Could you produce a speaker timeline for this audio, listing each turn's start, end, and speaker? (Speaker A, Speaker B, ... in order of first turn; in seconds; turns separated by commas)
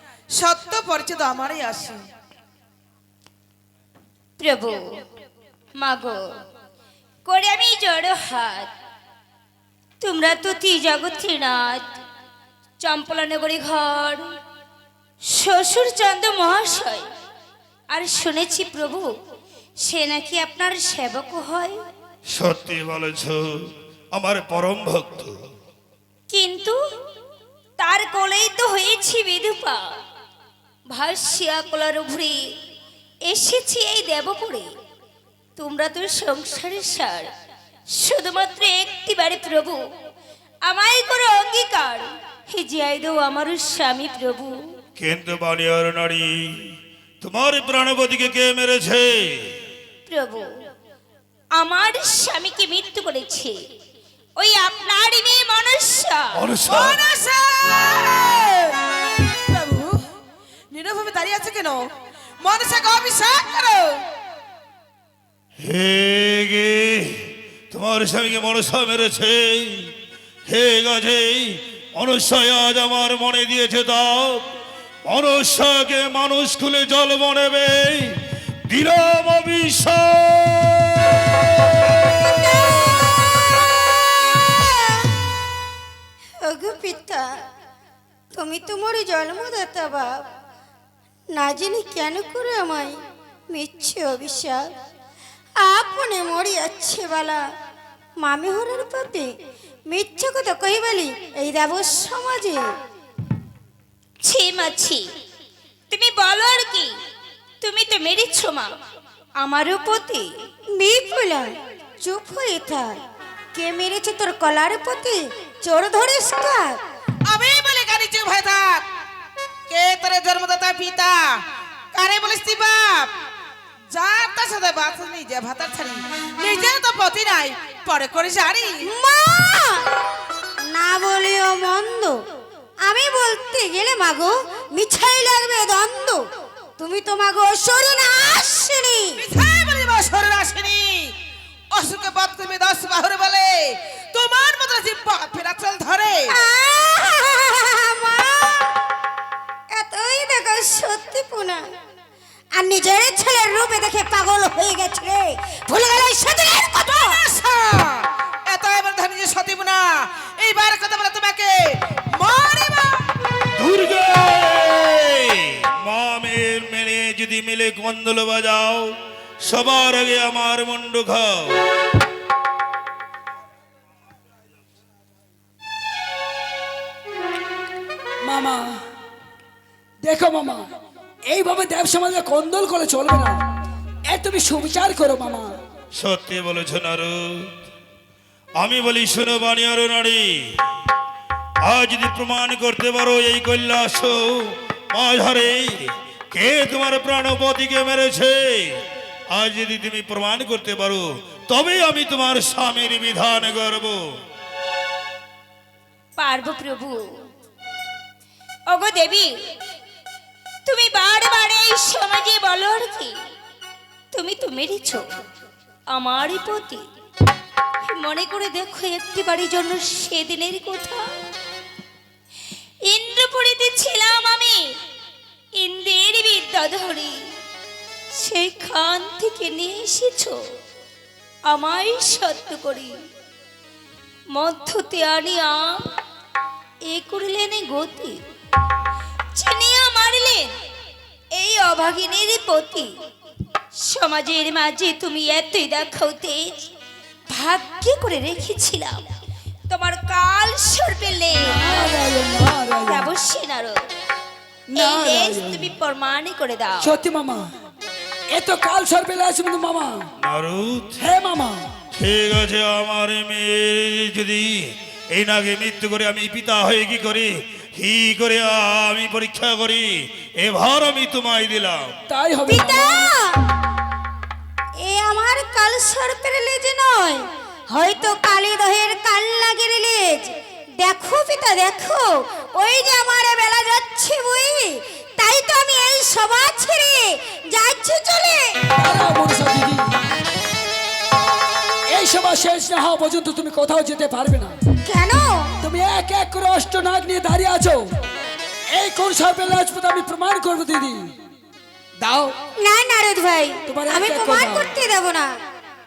Speaker A: 0.3-2.0, Speaker B: 4.4-5.0, Speaker B: 5.8-6.2, Speaker B: 7.3-8.7, Speaker B: 10.0-11.8, Speaker B: 12.8-14.2, Speaker B: 15.3-17.1, Speaker B: 17.9-19.1, Speaker B: 19.8-21.8, Speaker C: 22.3-23.4, Speaker C: 24.1-25.4, Speaker B: 26.3-26.8, Speaker B: 27.8-29.8, Speaker B: 30.9-32.4, Speaker B: 33.3-34.7, Speaker B: 35.6-37.3, Speaker B: 37.9-39.8, Speaker B: 40.6-44.6, Speaker C: 45.0-46.4, Speaker C: 47.2-49.3, Speaker B: 50.1-50.5, Speaker B: 51.6-53.6, Speaker B: 54.4-56.3, Speaker C: 56.3-57.0, Speaker A: 56.7-58.8, Speaker A: 59.5-60.0, Speaker A: 60.7-61.9, Speaker A: 62.4-64.0, Speaker C: 65.6-69.9, Speaker C: 70.5-74.5, Speaker C: 75.0-78.1, Speaker C: 78.7-81.3, Speaker D: 82.7-82.9, Speaker D: 84.2-85.1, Speaker D: 86.4-87.3, Speaker D: 88.3-90.3, Speaker D: 91.3-93.0, Speaker D: 93.5-94.7, Speaker D: 95.6-97.5, Speaker D: 98.2-99.3, Speaker D: 99.9-102.7, Speaker B: 104.2-105.1, Speaker B: 105.9-107.0, Speaker B: 107.6-108.7, Speaker B: 109.4-110.3, Speaker D: 110.7-113.0, Speaker D: 113.5-116.8, Speaker A: 117.3-118.8, Speaker A: 119.7-121.4, Speaker A: 121.9-123.1, Speaker A: 123.9-128.8, Speaker D: 129.0-129.9, Speaker D: 130.7-132.2, Speaker D: 132.8-136.2, Speaker D: 136.8-139.2, Speaker A: 139.2-141.1, Speaker A: 141.7-146.3, Speaker D: 146.4-148.7, Speaker D: 149.7-151.6, Speaker D: 152.5-157.2, Speaker A: 156.9-163.0, Speaker C: 163.6-171.6, Speaker E: 178.2-178.6, Speaker E: 180.0-180.7, Speaker E: 181.3-183.4, Speaker E: 184.1-185.6, Speaker C: 186.0-187.5, Speaker C: 188.6-190.3, Speaker C: 191.6-195.8, Speaker C: 196.3-198.8, Speaker C: 199.3-204.0, Speaker B: 206.2-207.0, Speaker B: 208.7-209.3, Speaker B: 210.7-213.1, Speaker B: 214.1-215.1, Speaker B: 215.9-216.8, Speaker B: 217.9-221.1, Speaker B: 222.9-224.7, Speaker B: 225.6-227.2, Speaker B: 228.1-230.4, Speaker B: 231.5-232.9, Speaker B: 234.3-235.7, Speaker B: 236.9-238.2, Speaker B: 239.3-240.5, Speaker B: 241.3-242.9, Speaker B: 243.8-246.5, Speaker B: 247.3-249.0, Speaker B: 249.7-251.6, Speaker E: 251.5-253.1, Speaker B: 252.9-253.8, Speaker E: 254.7-255.7, Speaker B: 254.8-256.9, Speaker E: 256.8-257.5, Speaker E: 258.3-260.1, Speaker C: 260.2-261.0, Speaker E: 261.0-261.7, Speaker C: 261.9-271.9, Speaker E: 272.1-273.1, Speaker D: 272.5-273.5, Speaker D: 274.8-288.6, Speaker E: 288.8-289.9, Speaker E: 291.9-294.6, Speaker D: 294.9-295.6, Speaker E: 295.6-297.9, Speaker E: 298.7-301.1, Speaker E: 302.0-302.4, Speaker D: 302.6-305.4, Speaker E: 303.7-304.7